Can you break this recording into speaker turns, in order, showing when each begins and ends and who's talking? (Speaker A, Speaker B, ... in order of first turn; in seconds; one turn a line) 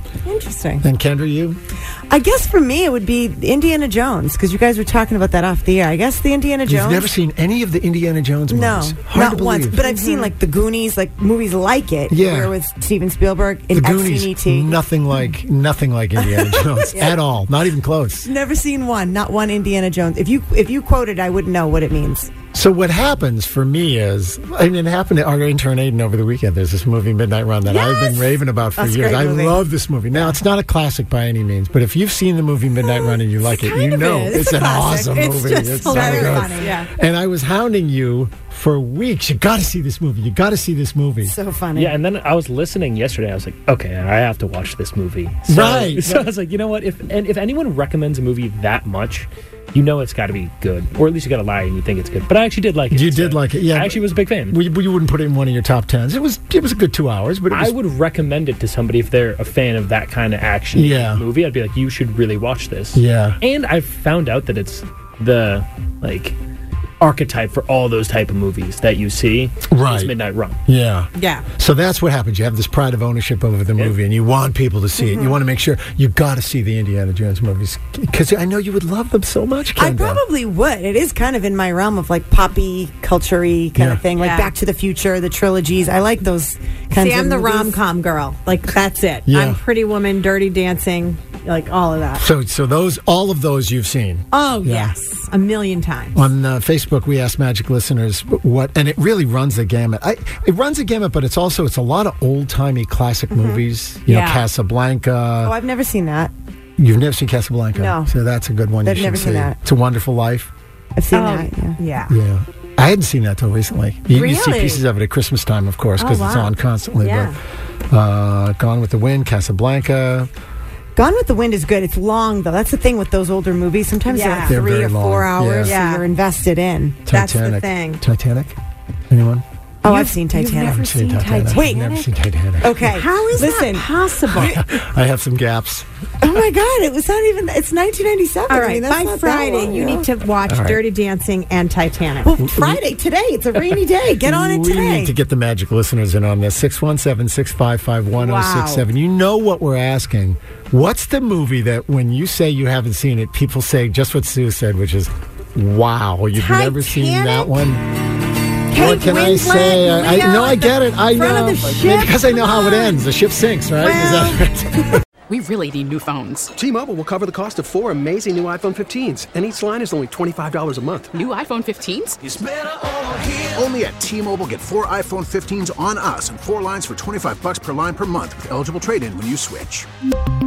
Speaker A: 0.2-0.8
Speaker B: 0.8-1.6
Speaker A: 2.1-7.1
Speaker B: 6.7-9.8
Speaker A: 8.5-14.8
Speaker C: 9.8-10.3
Speaker B: 12.1-12.5
Speaker B: 13.7-18.3
Speaker A: 16.2-17.2
Speaker A: 18.2-22.3
Speaker B: 22.5-41.4
Speaker A: 28.8-29.6
Speaker C: 33.4-36.9
Speaker A: 35.8-36.8
Speaker A: 41.2-42.0
Speaker D: 41.7-54.6
Speaker B: 45.5-46.3
Speaker B: 52.9-57.7
Speaker D: 57.5-66.4
Speaker B: 60.7-61.2
Speaker B: 62.9-63.4
Speaker D: 67.0-70.6
Speaker B: 69.7-70.1
Speaker B: 70.6-80.2
Speaker C: 71.2-71.4
Speaker A: 79.8-87.7
Speaker B: 83.8-84.0
Speaker C: 84.2-84.5
Speaker C: 86.9-92.2
Speaker B: 89.3-89.6
Speaker B: 92.2-94.9
Speaker C: 94.3-96.2
Speaker B: 96.1-105.5
Speaker A: 103.3-103.6
Speaker C: 104.1-104.5
Speaker A: 105.4-106.3
Speaker B: 106.8-110.5
Speaker A: 107.7-108.1
Speaker A: 108.8-109.6
Speaker A: 110.9-111.8
Speaker C: 111.1-112.1
Speaker B: 112.1-117.4
Speaker C: 114.1-114.8
Speaker C: 116.0-117.4
Speaker B: 117.9-120.3
Speaker A: 120.9-127.0
Speaker C: 124.1-124.7
Speaker B: 124.4-125.8
Speaker C: 125.5-126.0
Speaker B: 127.0-128.5
Speaker C: 127.1-128.0
Speaker B: 129.1-129.4
Speaker A: 129.8-130.9
Speaker C: 129.8-132.1
Speaker B: 130.6-132.9
Speaker A: 131.5-131.9
Speaker A: 132.6-134.5
Speaker C: 132.8-134.6
Speaker B: 134.3-135.8
Speaker A: 136.2-140.1
Speaker C: 138.5-142.4
Speaker B: 140.4-140.8
Speaker A: 142.2-145.1
Speaker B: 142.4-142.8
Speaker B: 144.2-157.9
Speaker C: 148.2-148.9
Speaker C: 156.3-157.7
Speaker C: 158.7-163.0
Speaker B: 158.7-165.0
Speaker C: 163.8-164.4
Speaker E: 165.3-166.5
Speaker F: 166.6-171.1
Speaker E: 171.1-172.2
Speaker G: 173.5-179.8